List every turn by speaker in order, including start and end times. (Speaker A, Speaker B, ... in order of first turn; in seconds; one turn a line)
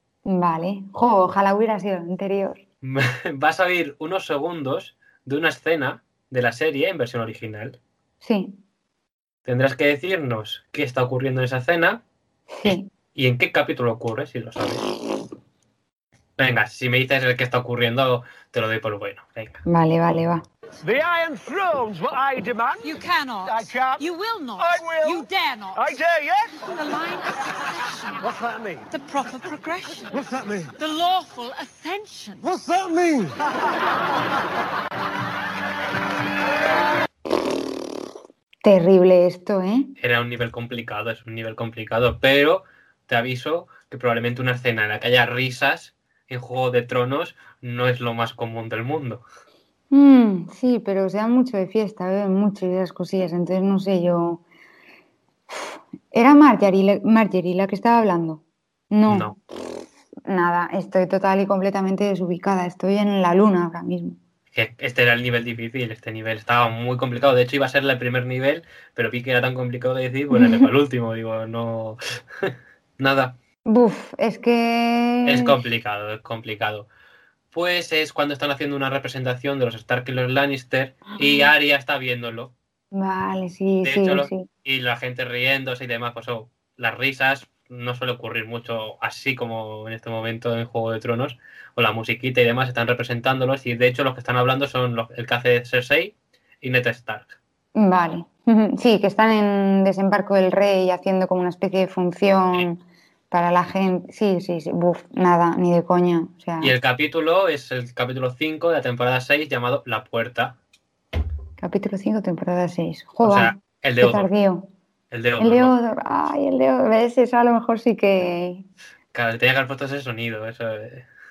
Speaker A: 0.2-2.6
Speaker B: 2.8-7.8
Speaker A: 8.2-8.6
Speaker B: 9.4-12.0
Speaker A: 12.5-12.9
Speaker B: 12.6-14.9
Speaker B: 16.4-19.6
Speaker A: 19.6-20.4
Speaker C: 20.8-22.9
Speaker D: 22.8-25.8
Speaker C: 23.4-24.1
Speaker C: 24.6-26.6
Speaker D: 26.6-28.2
Speaker C: 28.2-28.9
Speaker D: 28.9-30.1
Speaker C: 30.1-30.7
Speaker D: 30.8-32.5
Speaker C: 32.4-33.4
Speaker A: 38.6-39.9
Speaker B: 40.0-49.2
Speaker A: 49.9-54.4
Speaker A: 55.5-59.3
Speaker B: 59.1-59.4
Speaker A: 60.3-64.2
Speaker B: 64.5-73.3
Speaker A: 70.3-70.7
Speaker A: 73.7-75.6
Speaker B: 75.2-76.9
Speaker B: 77.5-82.5
Speaker A: 82.9-84.5
Speaker B: 83.8-97.4
Speaker A: 97.7-102.8
Speaker A: 103.3-106.7
Speaker B: 106.6-110.6
Speaker A: 111.6-114.7
Speaker B: 113.2-114.3
Speaker B: 115.1-115.7
Speaker A: 115.4-118.7
Speaker B: 119.1-121.1